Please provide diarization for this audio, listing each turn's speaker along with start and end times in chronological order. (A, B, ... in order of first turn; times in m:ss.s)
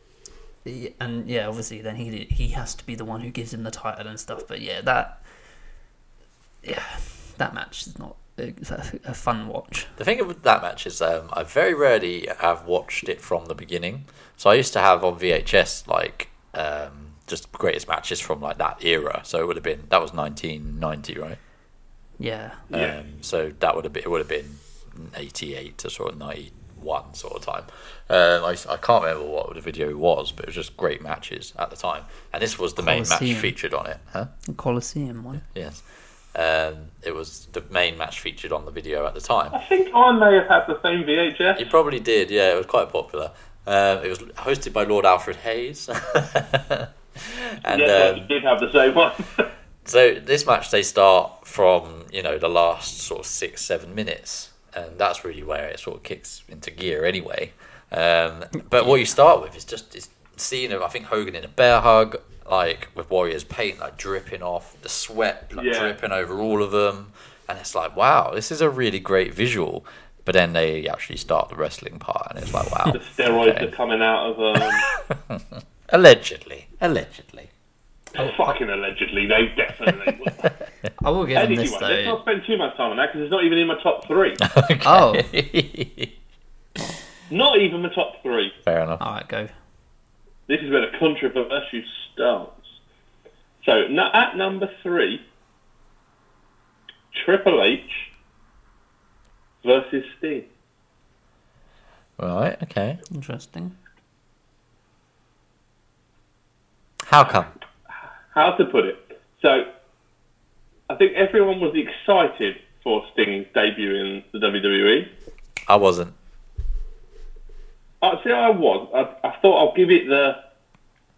0:00.6-0:05.2 A
0:06.6-0:09.9 A
0:10.0-0:21.4 B
0:22.2-0:22.7 A
0:22.7-0:34.3 B
0:32.8-0:33.5 A
0:34.4-0:35.4 A
0:35.4-0:39.6 B
0:39.5-0:41.6 C
0:41.5-0:48.3 B
0:47.7-0:49.5 C
0:49.8-1:13.7 B
1:05.5-1:06.0 C
1:12.9-1:14.9 C
1:14.9-1:17.5 B
1:18.2-1:20.5 C
1:18.2-1:18.5 A
1:21.0-1:22.2 A
1:21.3-1:24.4 C
1:24.4-1:26.1 B
1:24.8-1:25.3 A
1:27.3-1:28.5 C
1:28.6-1:29.0 B
1:29.0-1:29.5 A
1:30.5-1:32.8 C
1:33.6-1:35.2 C
1:37.1-1:38.1 C
1:39.6-1:40.4 C
1:42.2-1:43.0 B
1:43.1-1:43.8 A
1:47.0-1:47.5 B
1:48.3-1:49.6 C
1:50.9-1:55.1 C
1:55.7-1:56.1 B
1:58.0-2:00.4 C